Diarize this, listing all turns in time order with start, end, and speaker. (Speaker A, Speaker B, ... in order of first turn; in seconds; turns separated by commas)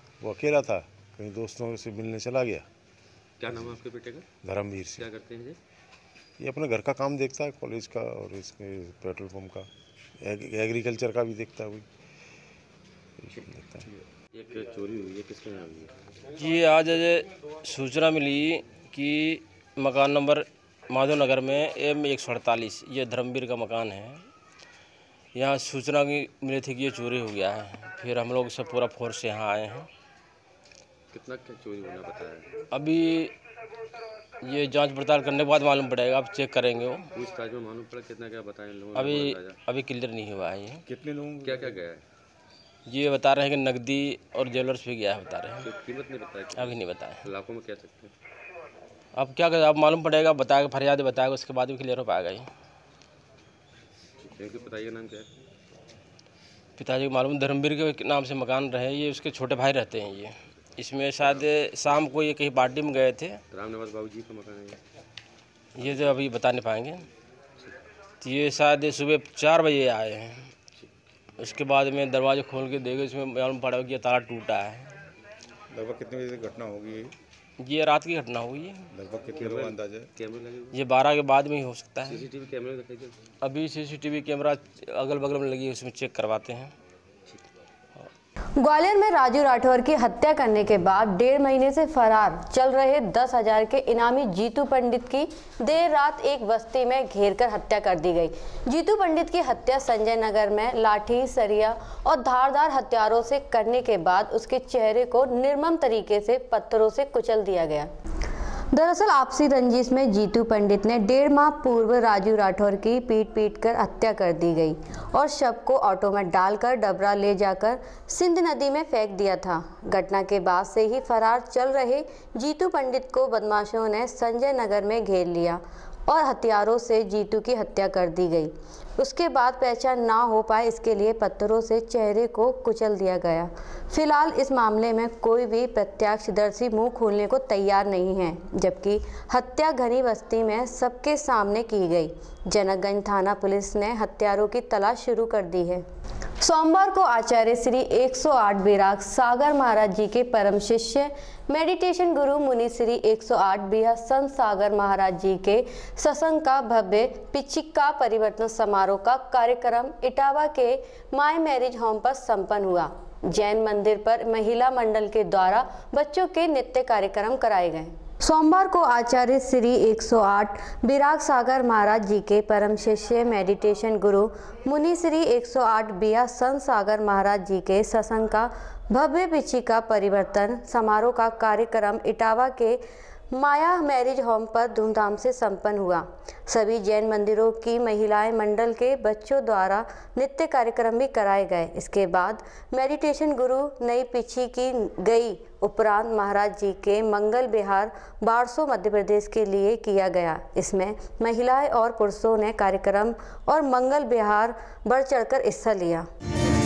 Speaker A: 0.2-2.6, Speaker B: 3.4-4.2, Speaker A: 4.4-5.0, Speaker B: 5.0-5.6, Speaker A: 6.4-9.7, Speaker A: 10.2-11.8, Speaker A: 13.2-13.8, Speaker B: 14.3-15.9, Speaker C: 16.4-24.2, Speaker C: 25.3-29.9, Speaker B: 31.1-32.6, Speaker C: 32.7-33.3, Speaker C: 34.4-37.1, Speaker B: 37.1-39.6, Speaker C: 38.9-40.8, Speaker D: 40.9-41.8, Speaker B: 41.4-42.0, Speaker C: 42.9-45.7, Speaker B: 45.6-48.1, Speaker C: 46.5-47.3, Speaker C: 49.1-52.5, Speaker B: 54.2-55.3, Speaker C: 56.8-63.4, Speaker B: 63.5-64.8, Speaker C: 65.7-67.0, Speaker C: 68.2-70.5, Speaker C: 71.4-74.9, Speaker D: 75.7-77.1, Speaker C: 77.6-78.9, Speaker D: 78.9-80.1, Speaker B: 79.3-80.7, Speaker C: 80.7-82.3, Speaker B: 82.0-83.2, Speaker C: 83.4-86.7, Speaker E: 88.6-107.9, Speaker E: 108.7-145.8, Speaker E: 146.4-182.8, Speaker E: 183.3-206.1